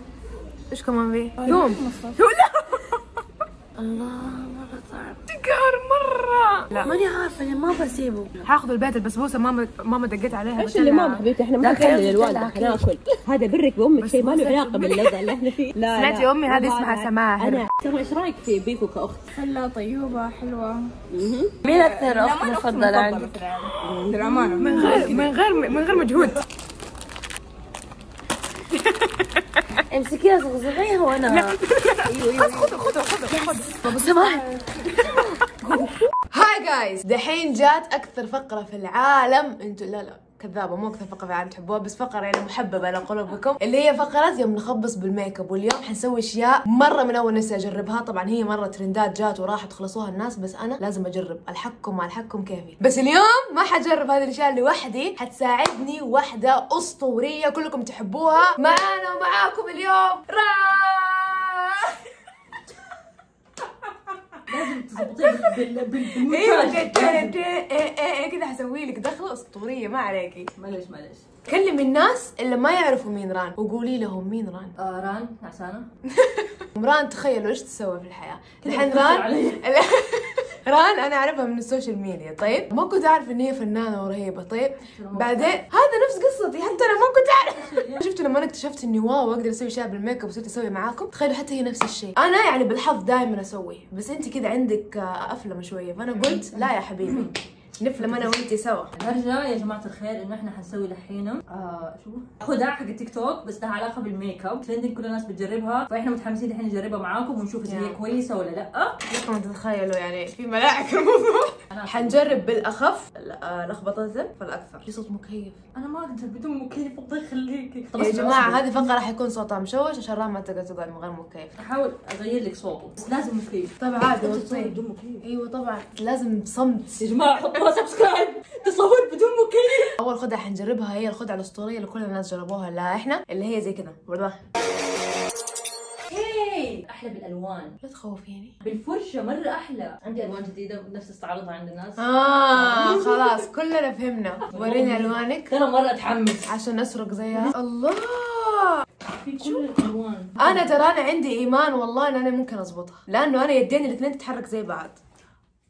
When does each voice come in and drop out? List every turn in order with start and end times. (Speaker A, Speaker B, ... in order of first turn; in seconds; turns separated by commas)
Speaker A: 0.7-3.2, Speaker B: 1.4-2.1, Speaker B: 3.8-5.2, Speaker A: 5.3-7.0, Speaker B: 6.8-8.5, Speaker A: 8.4-11.3, Speaker C: 10.6-19.3, Speaker B: 11.6-12.8, Speaker A: 14.1-15.0, Speaker B: 14.7-15.2, Speaker A: 15.9-17.7, Speaker D: 19.3-20.9, Speaker C: 21.1-21.5, Speaker B: 21.6-23.3, Speaker D: 21.7-25.3, Speaker C: 23.9-24.4, Speaker B: 24.2-25.1, Speaker A: 24.4-26.4, Speaker A: 28.7-29.7, Speaker B: 29.9-36.0, Speaker A: 31.3-62.1, Speaker A: 63.8-64.2, Speaker E: 64.5-67.4, Speaker A: 65.1-65.6, Speaker A: 66.2-70.5, Speaker E: 70.5-71.2, Speaker A: 71.5-74.8, Speaker E: 74.8-75.9, Speaker A: 76.1-98.9, Speaker E: 78.6-79.7, Speaker E: 84.9-85.7, Speaker E: 87.5-88.1, Speaker E: 96.2-97.3, Speaker E: 98.0-109.0, Speaker A: 107.7-108.0, Speaker A: 109.1-115.6, Speaker E: 111.7-112.6, Speaker E: 115.8-118.9, Speaker A: 118.0-121.5, Speaker E: 121.6-125.2, Speaker A: 123.8-127.0, Speaker E: 127.0-129.9, Speaker A: 130.0-134.4, Speaker E: 136.1-137.8, Speaker A: 137.8-138.6, Speaker E: 138.6-143.5, Speaker A: 142.0-145.5, Speaker E: 144.4-146.5, Speaker A: 146.5-148.8, Speaker E: 149.0-150.8, Speaker A: 149.4-149.7, Speaker A: 150.4-155.0